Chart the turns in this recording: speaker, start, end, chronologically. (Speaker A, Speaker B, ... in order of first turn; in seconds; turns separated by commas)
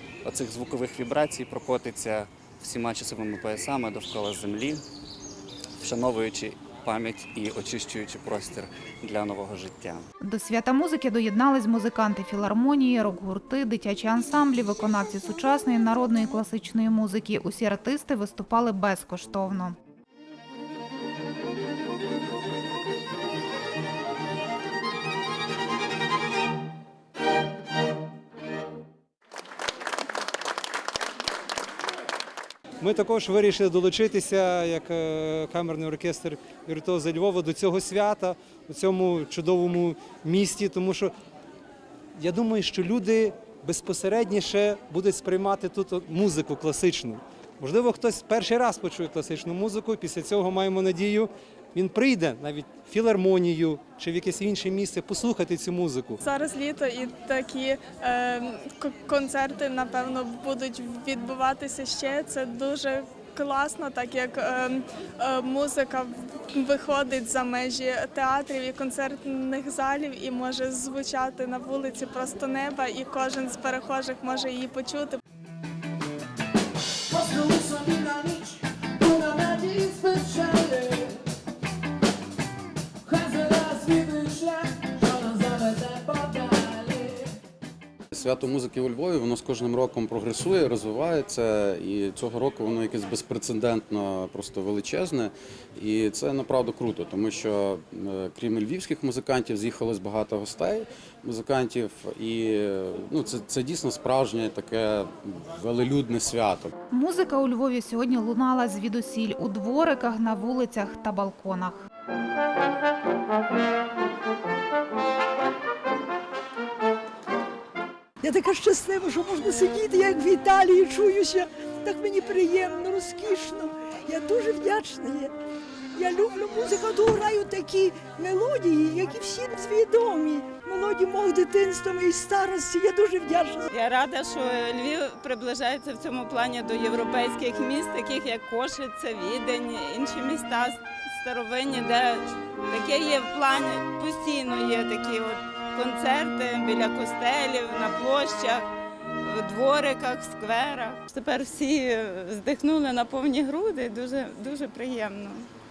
Speaker A: 0.2-4.8, Speaker A: 5.8-10.1, Speaker B: 10.2-19.8, Speaker C: 32.8-41.1, Speaker C: 42.2-56.2, Speaker D: 56.3-66.1, Speaker D: 66.6-75.2, Speaker E: 77.1-81.2, Speaker E: 83.0-87.3, Speaker F: 88.1-106.7, Speaker B: 106.9-111.8, Speaker G: 118.2-125.3, Speaker G: 125.9-133.7, Speaker H: 133.7-148.6, Speaker H: 149.2-155.5